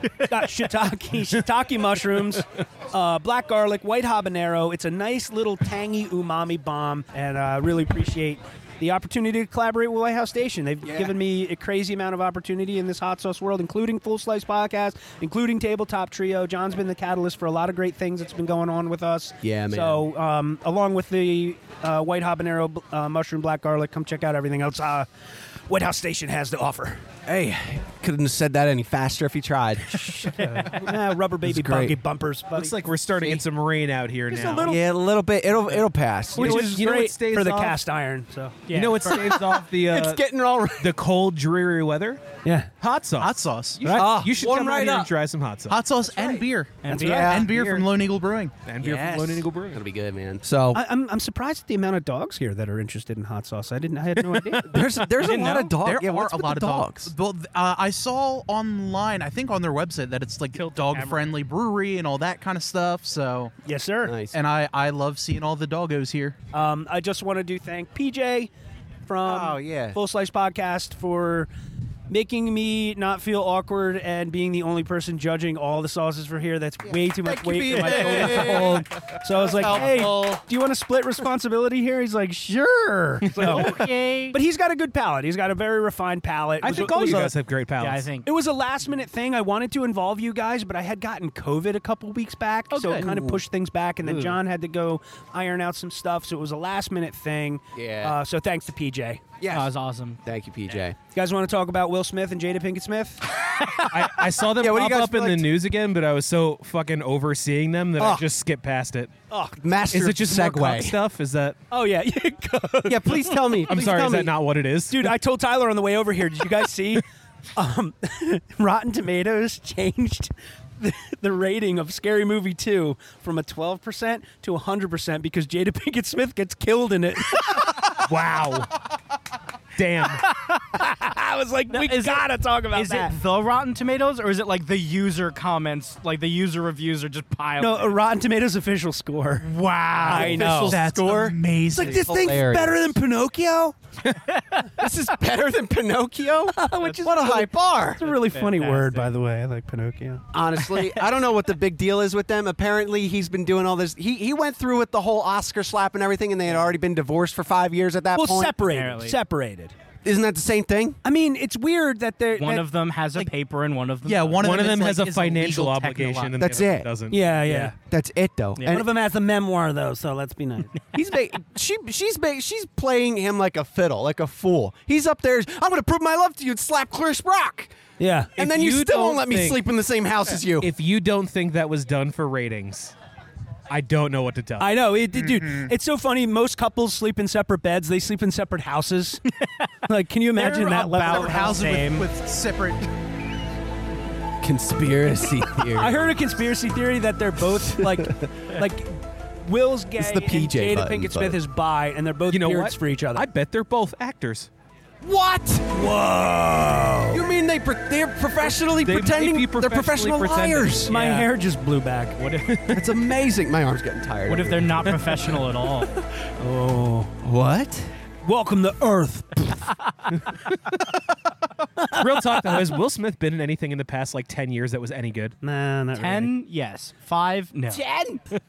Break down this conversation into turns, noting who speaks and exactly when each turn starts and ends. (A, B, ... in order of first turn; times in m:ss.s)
0:00.2-0:25.1 A
0:10.8-0:11.2 B
0:19.4-0:20.1 B
0:25.7-0:27.0 A
0:27.3-0:30.3 B
0:30.1-0:32.8 A
0:31.4-0:32.0 B
0:32.5-0:34.7 C
0:34.3-0:34.8 A
0:34.6-0:36.7 B
0:36.4-0:37.8 C
0:36.4-0:38.6 A
0:38.7-0:39.2 D
0:38.7-0:40.2 C
0:39.8-0:40.9 B
0:40.8-0:42.2 C
0:42.4-0:42.7 A
0:42.8-0:45.8 C
0:43.2-0:43.8 E
0:43.8-0:44.2 A
0:43.9-0:45.1 B
0:45.7-0:48.6 E
0:46.8-0:47.4 D
0:46.9-0:47.8 A
0:47.0-0:47.6 B
0:48.7-0:49.8 C
0:48.8-0:50.8 B
0:50.7-0:54.8 A
0:54.3-0:54.9 C
0:54.6-0:57.1 B
0:55.2-0:55.7 D
0:55.8-1:03.5 E
1:00.5-1:01.3 D
1:03.6-1:04.2 A
1:04.0-1:04.4 B
1:04.3-1:06.4 E
1:06.5-1:08.5 A
1:09.1-1:11.5 A
1:09.2-1:10.0 B
1:12.1-1:27.4 A
1:16.8-1:18.8 B
1:17.7-1:18.6 D
1:19.4-1:20.4 B
1:23.4-1:23.7 C
1:23.4-1:24.4 D
1:26.6-1:28.1 C
1:27.8-1:28.3 D
1:28.2-1:39.2 A
1:32.8-1:33.0 D
1:32.9-1:33.4 B
1:34.0-1:34.4 B
1:37.7-1:38.2 B
1:39.4-1:39.7 B
1:39.5-1:40.2 D
1:40.2-1:41.0 B
1:41.1-1:43.3 A
1:43.9-1:49.1 C
1:44.6-1:45.5 B
1:49.3-1:49.6 A
1:49.6-1:51.0 B
1:49.9-1:51.6 C
1:51.7-1:53.8 A
1:52.9-1:54.4 B
1:53.7-1:55.2 C
1:54.9-2:08.0 A
2:08.0-2:08.7 C
2:09.8-2:10.2 C
2:10.7-2:13.1 A
2:11.7-2:18.0 D
2:17.6-2:20.8 A
2:19.4-2:20.7 D
2:20.1-2:22.9 B
2:20.3-2:20.7 C
2:20.6-2:22.4 E
2:21.7-2:23.8 A
2:24.8-2:28.0 B
2:26.5-2:30.2 A
2:28.0-2:29.1 D
2:30.3-2:38.6 B
2:30.8-2:31.0 D
2:38.2-2:39.8 A
2:38.6-2:39.2 D
2:40.0-2:41.0 B
2:41.0-2:42.7 A
2:42.4-2:44.7 D
2:44.0-2:46.4 E
2:44.4-2:47.4 C
2:46.4-2:46.9 B
2:47.1-2:47.8 A
2:47.7-2:48.9 B
2:48.6-2:48.8 D
2:48.6-2:50.8 A
2:50.9-2:57.8 B
2:58.0-2:58.4 A
2:58.4-2:59.6 C
2:58.4-3:00.7 B
3:00.6-3:02.9 C
3:03.7-3:04.8 C
3:04.6-3:09.2 A
3:05.1-3:05.7 E
3:09.9-3:12.0 A
3:10.4-3:12.0 D
3:11.0-3:12.9 E
3:14.4-3:16.2 B
3:15.7-3:23.3 A
3:17.6-3:18.1 B
3:20.0-3:21.4 B
3:22.3-3:24.5 C
3:25.0-3:25.8 B
3:25.7-3:27.2 A
3:27.1-3:31.0 B
3:28.8-3:31.2 C
3:30.9-3:32.2 A
3:30.9-3:31.2 D
3:32.2-3:32.6 D
3:32.5-3:32.8 C
3:32.7-3:35.0 B
3:34.3-3:35.9 D
3:36.4-3:37.2 A
3:37.2-3:37.9 B
3:38.2-3:39.8 A
3:41.9-3:42.7 A
3:42.0-3:45.4 C
3:45.4-3:46.3 A
3:46.0-3:47.8 D
3:47.8-3:48.2 B